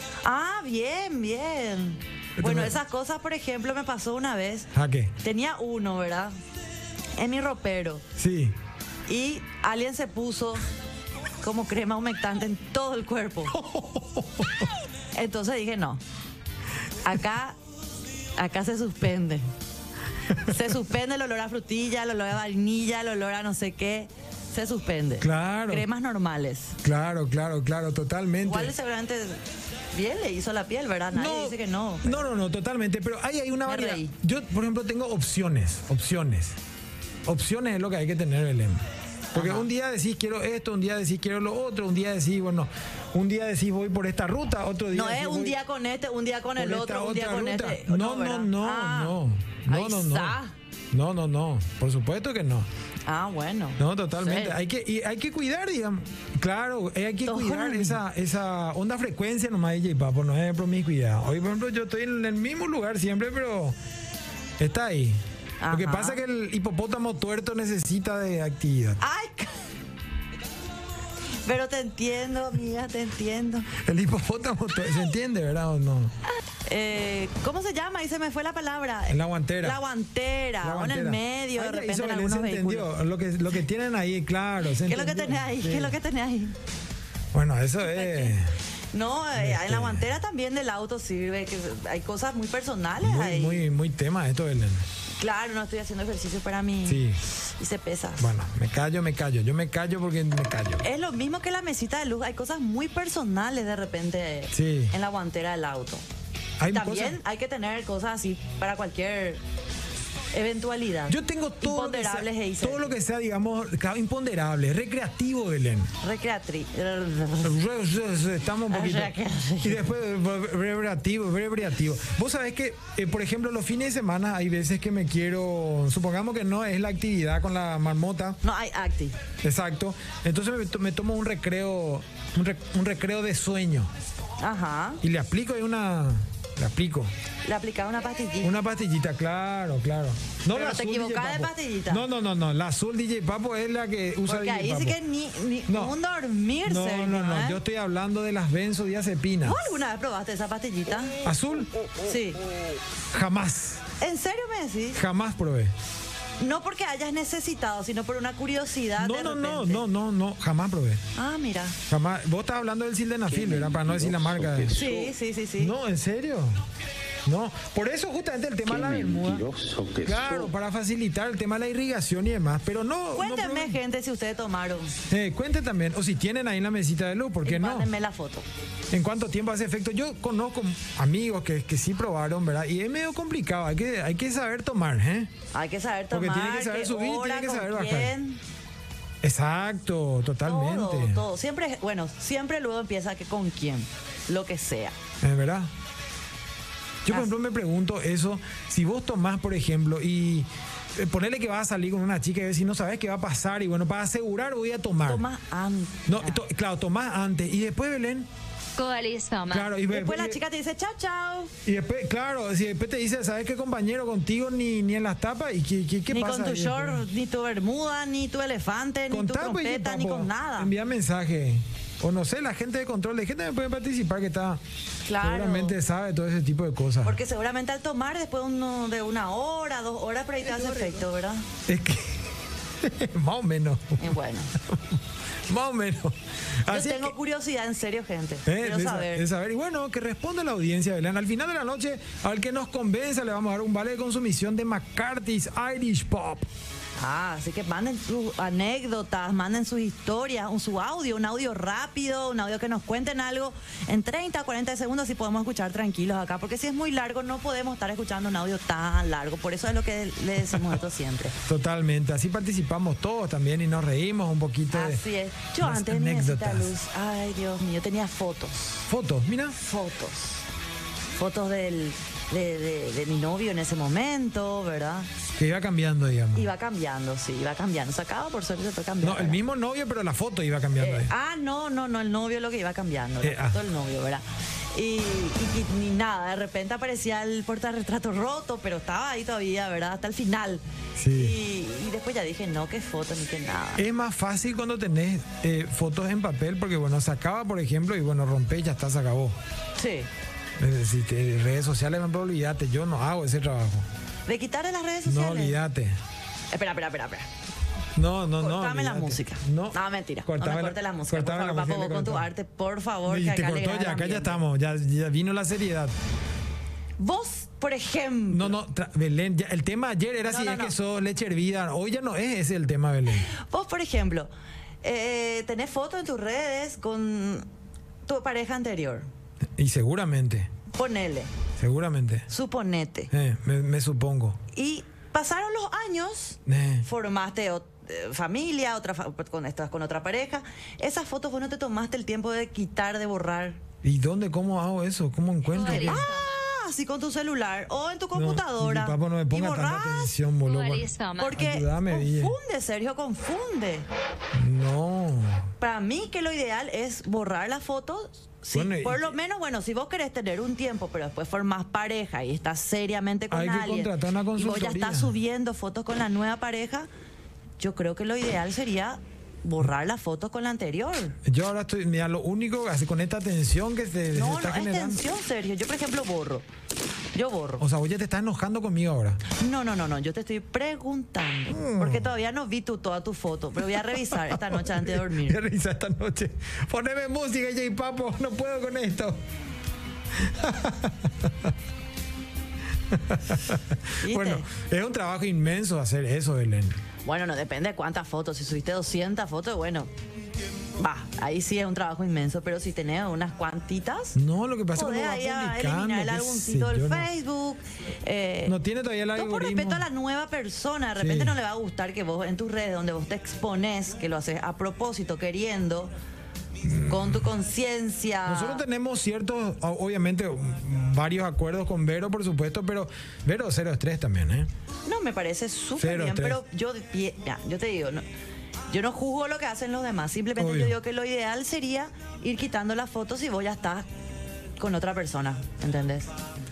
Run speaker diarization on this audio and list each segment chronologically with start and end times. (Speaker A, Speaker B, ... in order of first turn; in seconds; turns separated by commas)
Speaker A: 0.2-4.7, Speaker B: 2.4-2.8, Speaker B: 4.7-5.1, Speaker A: 5.2-6.3, Speaker A: 7.2-8.0, Speaker B: 8.2-8.5, Speaker A: 9.1-10.7, Speaker A: 11.4-13.6, Speaker B: 13.5-14.7, Speaker A: 15.1-16.0, Speaker A: 17.0-17.6, Speaker A: 18.4-19.5, Speaker A: 20.4-26.8, Speaker B: 25.2-25.9, Speaker B: 26.8-28.7, Speaker A: 28.4-29.4, Speaker A: 29.9-32.3, Speaker B: 31.1-36.6, Speaker A: 33.6-34.1, Speaker B: 37.2-45.6, Speaker A: 39.3-39.7, Speaker A: 44.9-50.5, Speaker B: 46.5-50.4, Speaker B: 50.9-52.7, Speaker A: 53.1-54.6, Speaker B: 53.8-63.8, Speaker A: 57.2-58.0, Speaker B: 64.6-69.0, Speaker A: 65.6-66.2, Speaker A: 69.0-69.6, Speaker A: 71.4-73.7, Speaker B: 73.7-76.1, Speaker A: 76.7-82.9, Speaker B: 79.1-79.8, Speaker B: 80.6-86.0, Speaker A: 84.8-86.5, Speaker B: 87.3-88.5, Speaker A: 87.8-88.4, Speaker A: 88.9-93.7, Speaker B: 89.3-90.1, Speaker B: 93.0-94.8, Speaker A: 95.2-98.3, Speaker B: 96.8-97.2, Speaker B: 98.2-100.8, Speaker A: 100.8-106.0, Speaker B: 104.5-104.9, Speaker B: 106.6-107.2, Speaker A: 106.7-109.4, Speaker A: 110.3-112.9, Speaker B: 111.1-115.9, Speaker A: 116.0-117.6, Speaker B: 117.4-128.4, Speaker A: 118.7-119.8, Speaker A: 128.4-129.2, Speaker B: 129.4-133.9, Speaker A: 134.4-135.0, Speaker B: 135.0-137.1, Speaker A: 137.4-138.5, Speaker B: 138.4-145.0, Speaker A: 140.5-142.0, Speaker A: 144.2-147.6, Speaker B: 145.7-145.9, Speaker B: 146.6-149.8, Speaker A: 149.4-151.2, Speaker B: 151.2-151.7, Speaker A: 152.0-152.4, Speaker B: 153.1-153.8, Speaker A: 154.0-155.0, Speaker B: 154.9-155.7, Speaker A: 156.4-159.8, Speaker B: 159.0-161.0, Speaker A: 161.1-161.8, Speaker B: 161.9-164.8, Speaker C: 163.3-165.1, Speaker A: 164.7-165.8, Speaker B: 165.6-166.6, Speaker B: 167.2-169.5, Speaker C: 168.7-170.5, Speaker B: 170.0-173.8, Speaker A: 173.1-174.9, Speaker B: 175.1-177.9, Speaker A: 177.4-178.4, Speaker B: 178.9-185.3, Speaker A: 185.5-188.4, Speaker B: 186.1-188.1, Speaker B: 189.2-191.2, Speaker A: 190.4-194.9, Speaker B: 195.2-195.7, Speaker B: 197.0-205.2, Speaker A: 205.0-206.4, Speaker B: 206.1-208.3, Speaker D: 208.8-209.7, Speaker B: 209.5-210.4, Speaker A: 209.9-211.5, Speaker B: 211.6-217.0, Speaker A: 216.1-220.7, Speaker B: 219.1-224.6, Speaker A: 225.0-225.8, Speaker B: 225.2-227.2, Speaker A: 227.0-231.4, Speaker B: 231.7-232.2, Speaker B: 232.8-237.1, Speaker A: 234.0-234.5, Speaker A: 236.7-239.2, Speaker B: 238.4-246.5, Speaker A: 247.0-261.4, Speaker B: 261.4-265.0, Speaker A: 264.7-268.9, Speaker B: 265.6-266.7, Speaker B: 268.9-269.6, Speaker A: 269.6-270.4, Speaker A: 271.1-275.1, Speaker B: 275.4-276.5, Speaker A: 276.3-279.4, Speaker B: 279.0-281.1, Speaker A: 280.8-293.9, Speaker B: 283.2-283.6, Speaker B: 291.0-291.4, Speaker B: 293.8-299.4, Speaker A: 299.8-300.1, Speaker B: 300.6-303.9, Speaker A: 304.3-305.6, Speaker B: 305.0-306.0, Speaker A: 306.5-307.3, Speaker B: 307.9-312.3, Speaker A: 308.4-314.4, Speaker B: 313.1-315.9, Speaker A: 317.0-318.6, Speaker B: 318.3-323.3, Speaker A: 320.2-320.7, Speaker A: 323.2-324.3, Speaker A: 324.8-327.5, Speaker A: 328.1-329.1, Speaker B: 329.6-330.5, Speaker A: 330.7-331.3, Speaker B: 331.6-332.3, Speaker A: 332.3-333.1, Speaker B: 333.1-334.4, Speaker A: 334.5-343.6, Speaker B: 336.4-336.9, Speaker B: 343.8-346.1, Speaker D: 345.5-346.3, Speaker A: 345.7-350.1, Speaker B: 348.1-352.4, Speaker D: 350.4-351.4, Speaker A: 351.2-353.9, Speaker B: 354.3-355.5, Speaker A: 355.6-366.9, Speaker B: 358.5-359.1, Speaker B: 363.3-365.1, Speaker A: 367.6-371.2, Speaker B: 371.2-375.0, Speaker A: 374.1-376.4, Speaker A: 377.1-377.6, Speaker B: 377.6-379.2, Speaker A: 379.3-385.4, Speaker B: 381.5-382.1, Speaker B: 383.8-389.2, Speaker B: 390.1-391.5, Speaker B: 392.9-396.8, Speaker A: 394.0-394.4, Speaker A: 397.0-399.9, Speaker A: 400.8-404.2, Speaker B: 404.1-407.1, Speaker A: 404.7-408.6, Speaker B: 408.4-409.9, Speaker A: 409.1-415.9, Speaker B: 411.0-411.4, Speaker B: 416.6-417.3, Speaker A: 416.9-418.6, Speaker B: 418.2-424.5, Speaker A: 424.8-428.0, Speaker B: 425.8-426.4, Speaker A: 428.7-433.9, Speaker B: 430.4-430.8, Speaker A: 434.6-436.1